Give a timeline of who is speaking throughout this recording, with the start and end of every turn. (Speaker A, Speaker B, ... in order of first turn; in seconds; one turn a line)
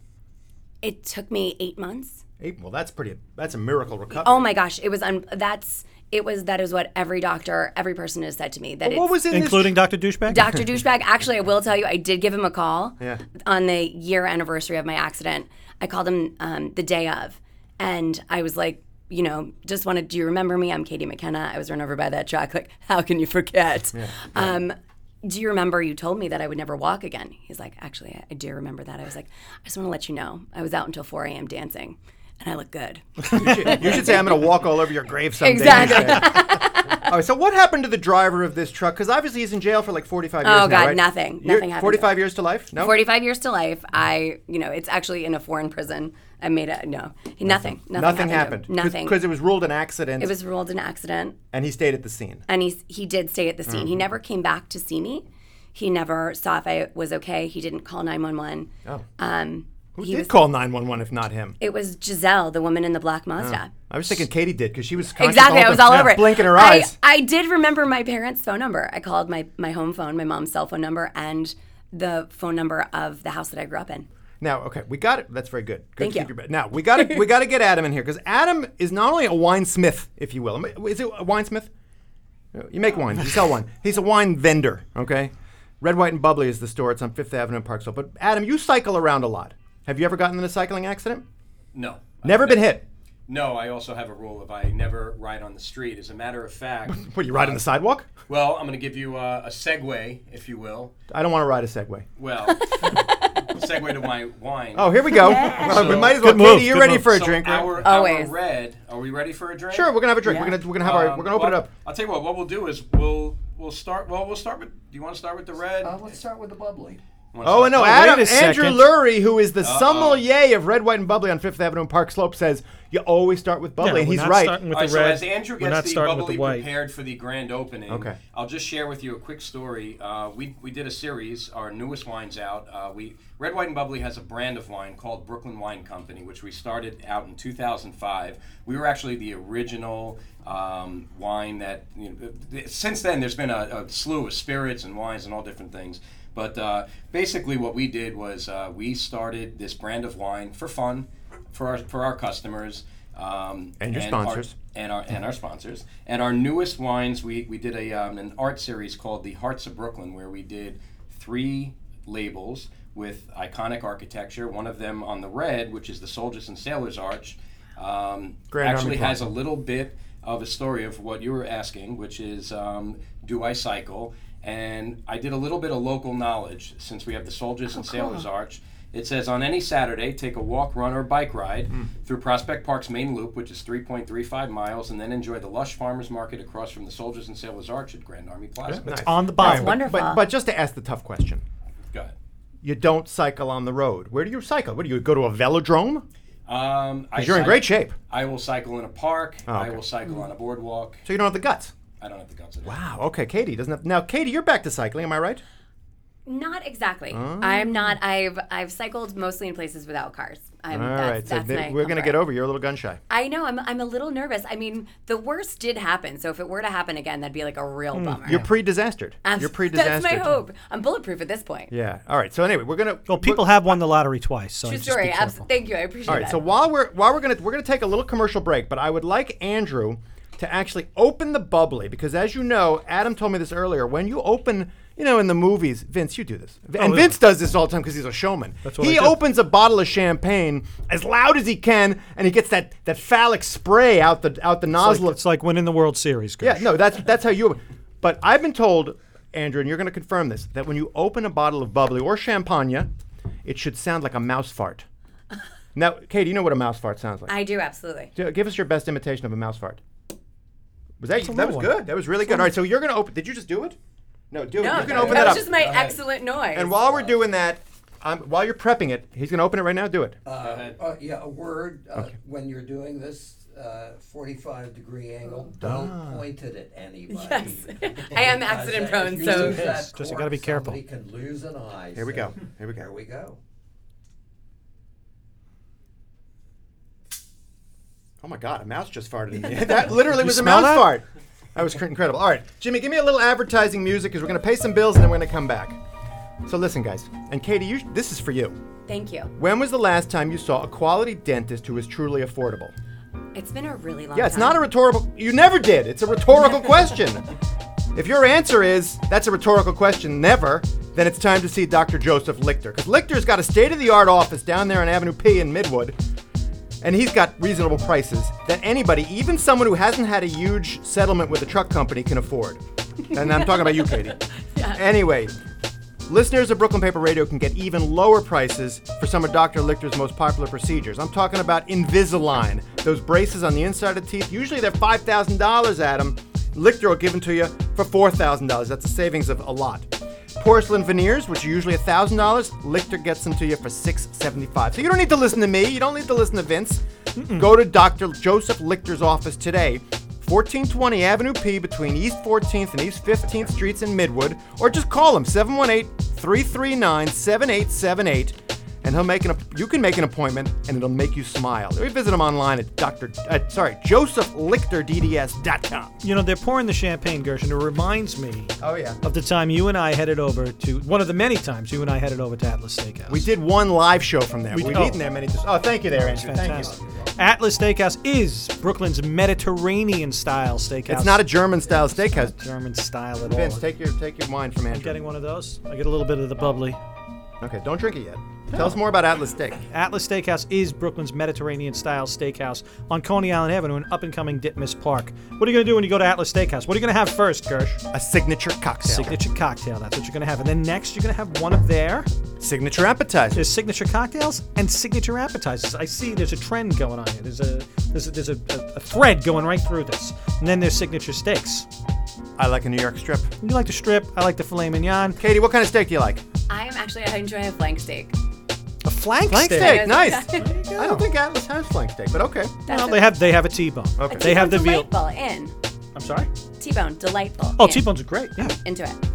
Speaker A: 0.8-2.2
Speaker B: 2.4-4.5
Speaker A: 4.1-9.2
Speaker B: 8.8-9.8
Speaker C: 9.3-10.6
Speaker A: 10.3-34.4
Speaker B: 23.9-24.6
Speaker B: 33.3-43.0
Speaker A: 35.4-37.1
Speaker A: 40.4-49.2
Speaker B: 47.5-50.3
Speaker A: 50.2-51.4
Speaker B: 51.5-52.4
Speaker A: 52.5-60.4
Speaker B: 53.7-54.0
Speaker B: 60.0-61.6
Speaker A: 61.6-63.7
Speaker B: 63.4-67.0
Speaker A: 65.2-74.1
Speaker B: 74.4-81.7
Speaker A: 76.0-76.3
Speaker B: 82.5-91.2
Speaker D: 91.7-97.6
Speaker B: 92.2-92.8
Speaker B: 96.9-98.1
Speaker D: 98.3-100.9
Speaker B: 101.1-102.1
Speaker D: 102.2-110.0
Speaker A: 102.6-103.3
Speaker B: 104.8-107.8
Speaker A: 105.1-105.8
Speaker C: 106.0-107.1
Speaker A: 107.8-108.3
Speaker B: 109.7-111.7
Speaker A: 110.2-110.6
Speaker D: 110.8-116.0
Speaker E: 115.8-117.0
Speaker D: 117.3-118.1
Speaker B: 117.4-124.6
Speaker C: 117.7-118.9
Speaker D: 119.6-120.3
Speaker C: 123.8-126.7
Speaker D: 124.7-188.9
Speaker B: 127.9-128.2
Speaker B: 153.8-154.5
Speaker B: 168.5-169.3
Speaker A: 177.9-178.2
Speaker B: 188.7-191.4
Speaker C: 188.8-189.8
Speaker A: 189.4-190.2
Speaker B: 192.6-196.1
Speaker D: 196.5-201.1
Speaker B: 197.2-197.9
Speaker B: 199.5-199.8
Speaker B: 201.1-201.7
Speaker D: 202.0-202.8
Speaker B: 202.6-205.4
Speaker A: 206.2-212.2
Speaker B: 207.1-208.0
Speaker B: 210.7-213.0
Speaker A: 213.1-218.5
Speaker C: 217.9-218.4
Speaker B: 218.2-220.4
Speaker A: 219.2-221.7
Speaker B: 221.7-223.8
Speaker C: 223.1-225.5
Speaker A: 224.6-226.4
Speaker B: 226.1-245.2
Speaker C: 236.8-237.1
Speaker C: 238.6-239.2
Speaker C: 244.8-246.7
Speaker B: 246.4-252.9
Speaker B: 253.4-254.8
Speaker B: 255.8-257.3
Speaker A: 257.3-258.1
Speaker B: 258.1-259.8
Speaker B: 261.0-263.8
Speaker C: 261.2-261.7
Speaker B: 264.3-265.5
Speaker A: 264.6-266.8
Speaker E: 264.7-266.0
Speaker D: 264.8-265.8
Speaker B: 266.5-270.2
Speaker E: 266.9-267.1
Speaker E: 270.3-283.4
Speaker D: 270.4-270.8
Speaker B: 275.6-276.2
Speaker A: 277.1-279.8
Speaker C: 279.2-280.8
Speaker B: 281.9-282.9
Speaker B: 288.2-291.0
Speaker C: 290.0-290.9
Speaker B: 291.6-295.8
Speaker B: 296.4-298.6
Speaker A: 298.9-299.3
Speaker B: 299.4-302.7
Speaker A: 303.3-304.6
Speaker B: 304.1-307.3
Speaker B: 307.9-316.0
Speaker B: 316.8-325.3
Speaker A: 323.2-324.0
Speaker A: 324.5-324.8
Speaker B: 326.1-366.0
Speaker C: 347.2-347.5
Speaker C: 366.0-373.3
Speaker B: 368.6-369.0
Speaker B: 373.1-376.7
Speaker C: 374.5-375.0
Speaker C: 375.9-381.3
Speaker E: 376.4-377.1
Speaker B: 380.9-382.4
Speaker C: 381.8-383.6
Speaker B: 383.2-385.0
Speaker C: 384.7-386.8
Speaker B: 387.4-389.6
Speaker C: 389.7-397.8
Speaker B: 397.9-399.2
Speaker C: 398.8-402.1
Speaker B: 402.4-403.5
Speaker C: 403.4-411.7
Speaker B: 412.4-413.3
Speaker C: 413.4-415.2
Speaker B: 415.2-416.2
Speaker A: 416.5-418.1
Speaker C: 418.8-421.1
Speaker B: 419.3-422.6
Speaker A: 419.5-420.5
Speaker A: 422.7-423.1
Speaker C: 422.7-424.9
Speaker B: 424.0-424.3
Speaker A: 424.1-425.5
Speaker C: 425.9-426.3
Speaker A: 426.6-429.0
Speaker C: 427.6-428.6